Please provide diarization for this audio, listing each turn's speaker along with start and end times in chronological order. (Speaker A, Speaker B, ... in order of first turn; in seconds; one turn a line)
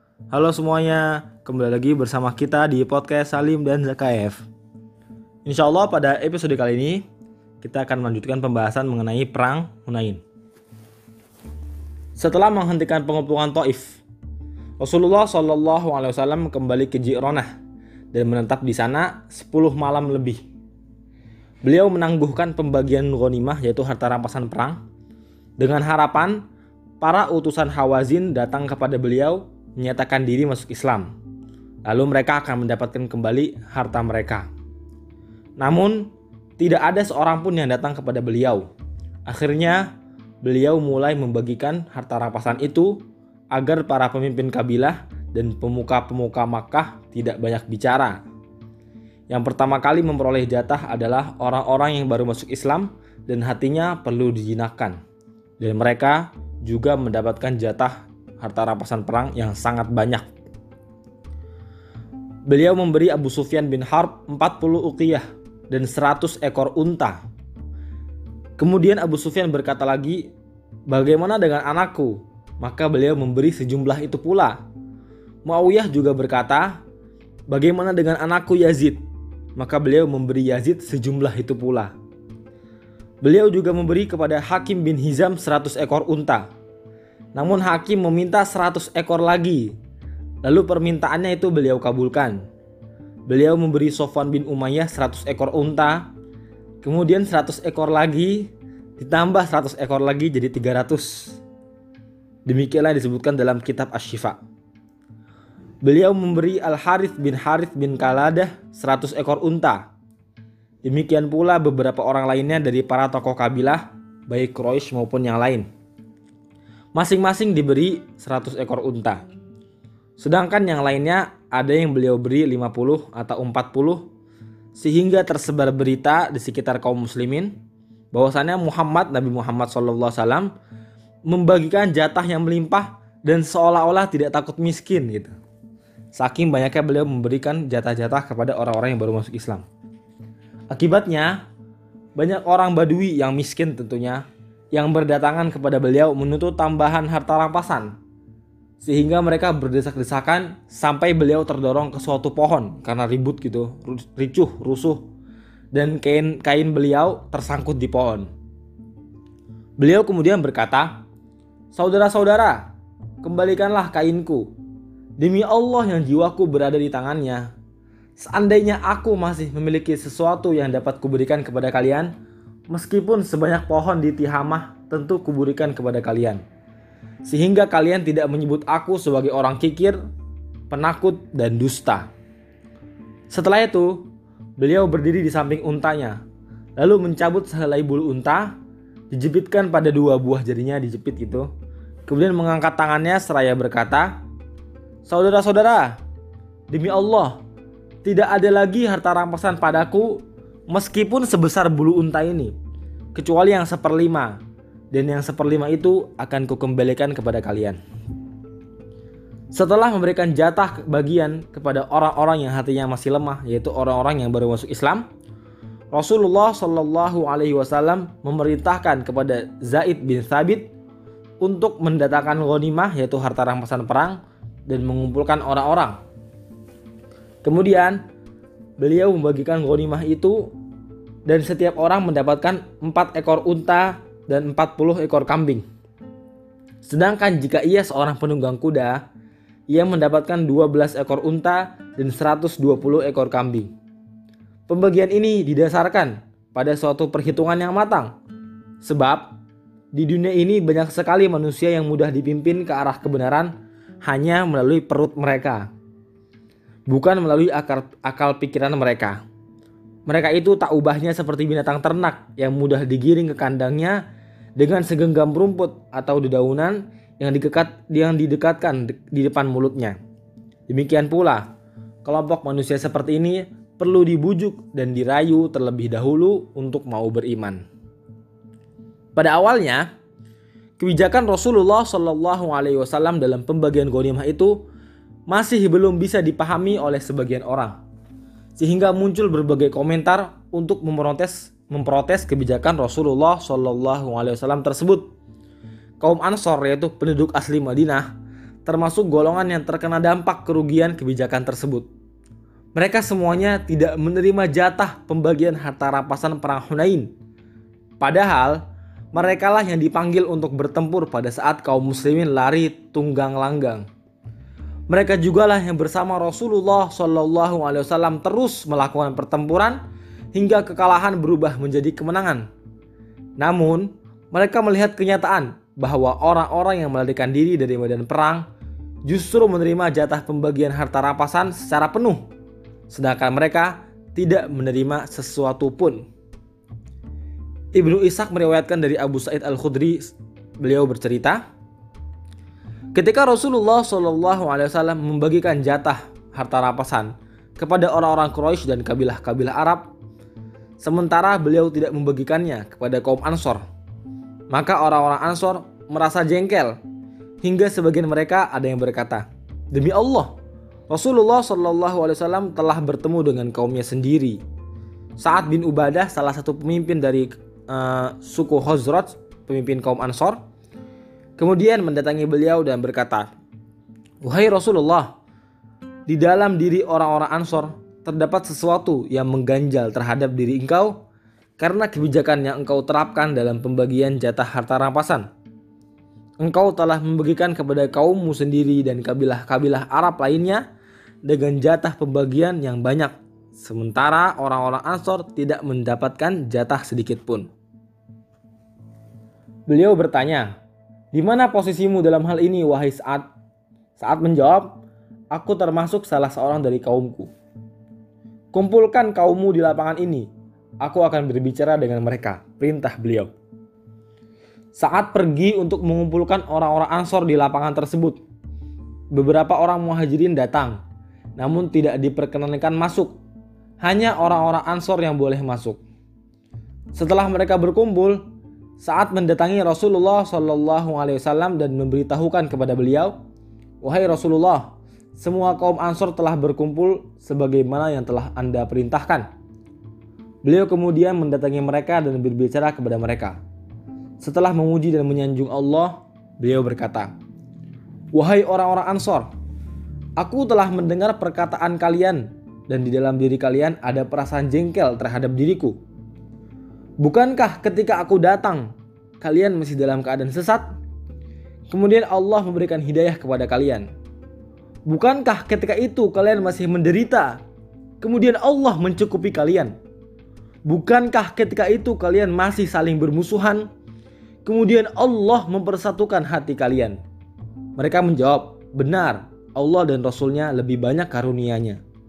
Speaker A: 0.3-4.5
Speaker A: 5.4-7.0
Speaker A: 7.6-10.2
Speaker A: 12.2-14.0
Speaker A: 14.8-17.5
Speaker A: 18.1-20.4
Speaker A: 21.6-24.8
Speaker A: 25.6-26.4
Speaker A: 27.0-31.1
Speaker A: 31.8-34.5
Speaker A: 35.6-38.7
Speaker A: 39.2-48.2
Speaker A: 49.3-55.0
Speaker A: 55.6-60.3
Speaker A: 62.5-67.2
Speaker A: 68.6-70.3
Speaker A: 70.9-74.6
Speaker A: 75.4-76.8
Speaker A: 77.5-79.0
Speaker A: 79.5-81.9
Speaker A: 83.2-86.5
Speaker A: 87.3-89.8
Speaker A: 90.4-92.5
Speaker A: 93.3-96.1
Speaker A: 96.8-101.4
Speaker A: 102.5-104.4
Speaker A: 105.8-109.9
Speaker A: 110.8-115.7
Speaker A: 116.9-119.2
Speaker A: 120.2-124.1
Speaker A: 124.7-127.6
Speaker A: 128.1-130.5
Speaker A: 131.2-135.3
Speaker A: 136.1-139.7
Speaker A: 140.7-141.4
Speaker A: 142.1-147.9
Speaker A: 148.8-155.1
Speaker A: 155.7-158.3
Speaker A: 159.8-161.0
Speaker A: 161.7-162.7
Speaker A: 163.2-164.5
Speaker A: 165.2-167.5
Speaker A: 168.2-172.1
Speaker A: 172.7-176.4
Speaker A: 177.2-180.0
Speaker A: 180.7-182.1
Speaker A: 183.3-186.2
Speaker A: 186.8-188.6
Speaker A: 189.1-191.5
Speaker A: 192.1-194.2
Speaker A: 195.0-196.0
Speaker A: 196.7-197.4
Speaker A: 198.0-202.5
Speaker A: 203.1-207.8
Speaker A: 209.5-215.0
Speaker A: 215.9-220.7
Speaker A: 221.4-226.0
Speaker A: 227.4-228.0
Speaker A: 228.8-230.5
Speaker A: 231.2-235.6
Speaker A: 236.8-239.0
Speaker A: 239.7-243.7
Speaker A: 244.7-248.1
Speaker A: 248.8-249.4
Speaker A: 249.9-255.7
Speaker A: 256.9-259.2
Speaker A: 260.1-264.0
Speaker A: 264.6-270.0
Speaker A: 270.7-271.5
Speaker A: 272.0-277.6
Speaker A: 279.1-279.8
Speaker A: 280.8-284.7
Speaker A: 285.3-287.8
Speaker A: 288.6-295.1
Speaker A: 296.0-298.1
Speaker A: 298.6-301.9
Speaker A: 302.7-307.1
Speaker A: 308.0-313.9
Speaker A: 314.9-319.8
Speaker A: 320.3-322.5
Speaker A: 323.4-328.5
Speaker A: 329.0-332.3
Speaker A: 332.9-336.1
Speaker A: 337.7-341.4
Speaker A: 342.9-349.9
Speaker A: 350.8-353.6
Speaker A: 354.5-356.8
Speaker A: 357.4-360.4
Speaker A: 360.9-364.4
Speaker A: 365.2-370.4
Speaker A: 371.4-373.3
Speaker A: 374.2-375.2
Speaker A: 376.1-381.0
Speaker A: 381.6-385.3
Speaker A: 386.4-390.7
Speaker A: 391.2-397.5
Speaker A: 399.7-400.5
Speaker A: 401.1-403.3
Speaker A: 403.9-407.3
Speaker A: 408.5-410.3
Speaker A: 410.8-413.3
Speaker A: 414.7-418.2
Speaker A: 419.1-420.8
Speaker A: 421.4-423.2
Speaker A: 423.8-425.8
Speaker A: 426.9-428.2
Speaker A: 428.8-433.1
Speaker A: 433.8-439.3
Speaker A: 440.4-443.4
Speaker A: 444.2-447.1
Speaker A: 448.1-449.3
Speaker A: 450.2-455.8
Speaker A: 457.0-460.7
Speaker A: 461.7-463.9
Speaker A: 464.9-467.4
Speaker A: 468.0-469.7
Speaker A: 470.6-473.7
Speaker A: 474.4-477.0
Speaker A: 477.8-481.8